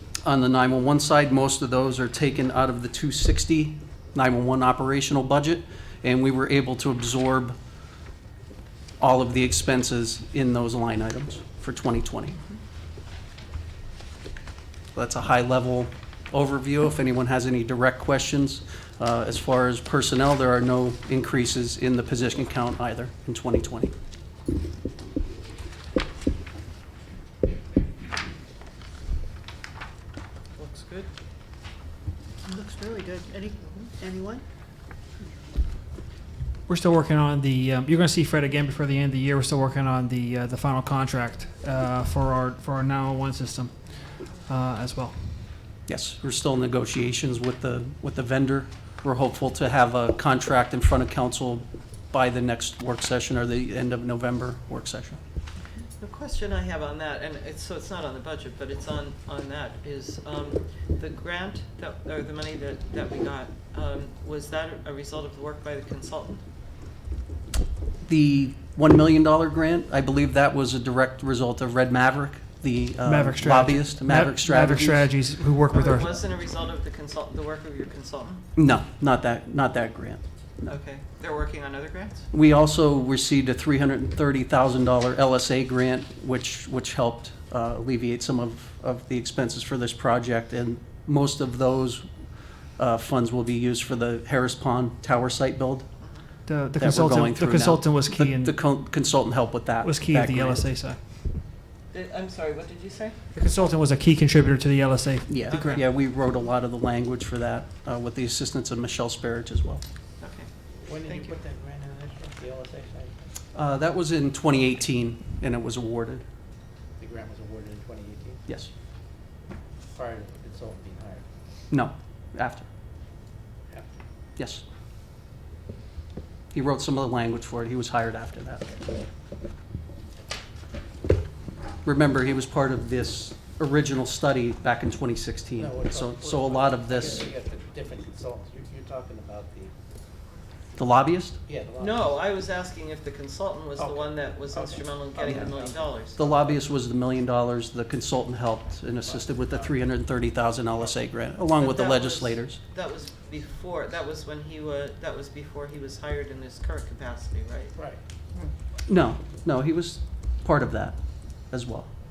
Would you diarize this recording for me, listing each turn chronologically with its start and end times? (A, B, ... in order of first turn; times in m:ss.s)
0:00.2-0:07.6 A
0:09.0-0:12.4 A
0:14.9-0:23.9 A
0:30.6-0:31.1 B
0:32.4-0:34.4 C
0:33.6-0:33.9 B
0:36.7-0:45.5 D
0:45.8-0:55.2 A
0:56.0-1:06.4 B
1:08.0-1:15.1 A
1:13.0-1:16.2 D
1:15.7-1:18.4 B
1:18.6-1:20.2 A
1:20.6-1:22.3 B
1:22.3-1:32.1 A
1:32.8-1:35.9 A
1:36.5-1:38.7 D
1:36.7-1:40.6 A
1:39.8-1:41.0 D
1:41.9-1:43.2 B
1:43.3-1:45.5 D
1:45.3-1:49.8 A
1:45.4-1:45.8 B
1:50.2-1:51.3 B
1:50.9-1:53.3 E
1:53.5-1:56.2 A
1:57.0-1:58.4 E
1:59.9-2:01.2 E
2:01.7-2:02.7 A
2:04.4-2:04.6 A
2:06.5-2:08.8 A
2:11.8-2:17.3 A
2:15.6-2:19.7 E
2:20.8-2:21.4 A
2:21.5-2:22.2 E
2:21.8-2:26.2 B
2:23.8-2:26.4 E
2:26.1-2:32.6 A
2:29.0-2:29.8 E
2:31.5-2:37.7 B
2:38.9-2:41.0 A
2:41.5-2:41.9 A